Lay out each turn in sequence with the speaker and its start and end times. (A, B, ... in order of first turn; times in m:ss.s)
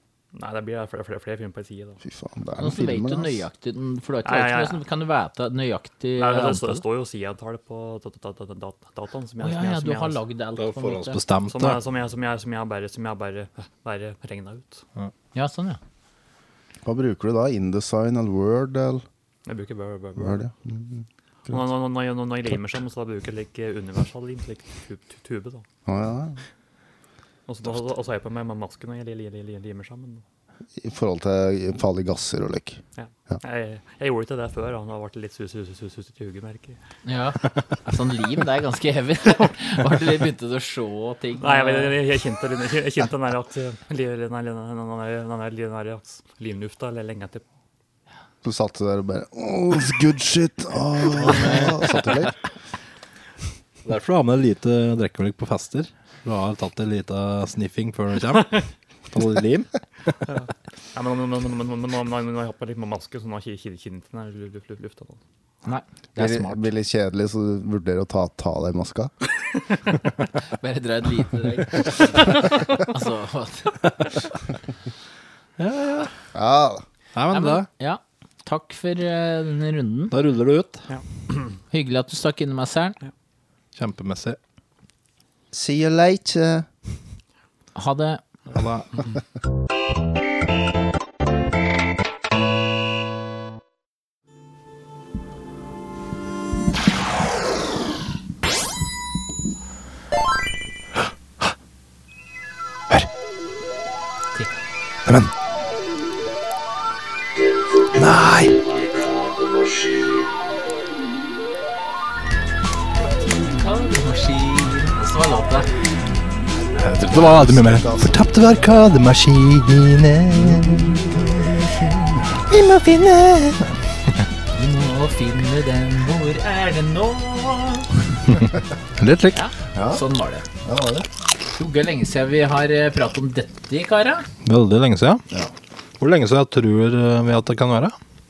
0:00.3-0:02.0 A
0:02.0-0:03.4 B
0:02.6-0:06.8 C
0:04.2-0:04.8 A
0:06.2-0:10.2 A
0:09.4-0:11.2 C
0:10.6-0:11.8 D
0:11.5-0:14.8 A
0:15.3-0:15.8 C
0:16.8-0:19.0 B
0:19.4-0:20.4 A
0:20.2-0:21.5 B
0:21.5-0:25.6 A
0:25.8-0:26.4 B
0:27.5-0:30.2 A
0:30.8-0:33.4 B
0:33.0-0:36.8 A
0:37.0-0:42.0 C
0:41.4-0:47.4 A
0:48.4-0:52.4 B
0:51.2-0:52.1 D
0:53.8-0:59.8 D
1:00.2-1:05.2 A
1:05.6-1:06.7 C
1:06.2-1:09.1 B
1:10.5-1:13.8 C
1:15.6-1:16.1 D
1:16.3-1:16.8 B
1:17.1-1:17.7 D
1:17.3-1:20.1 C
1:20.1-1:20.8 D
1:20.9-1:21.6 A
1:21.7-1:23.0 C
1:23.8-1:24.4 D
1:25.5-1:26.7 B
1:27.7-1:28.2 C
1:28.5-1:28.9 D
1:45.0-1:45.3 D
1:47.9-1:48.6 D
1:53.1-1:55.7 C
1:56.8-2:01.1 D
1:56.9-1:58.2 B
2:00.3-2:02.4 B
2:02.5-2:03.8 D
2:04.5-2:07.9 C
2:09.0-2:09.4 D
2:09.3-2:10.4 C
2:09.7-2:10.0 B
2:10.6-2:11.1 B
2:11.5-2:14.3 C
2:14.4-2:15.2 D
2:16.0-2:18.0 D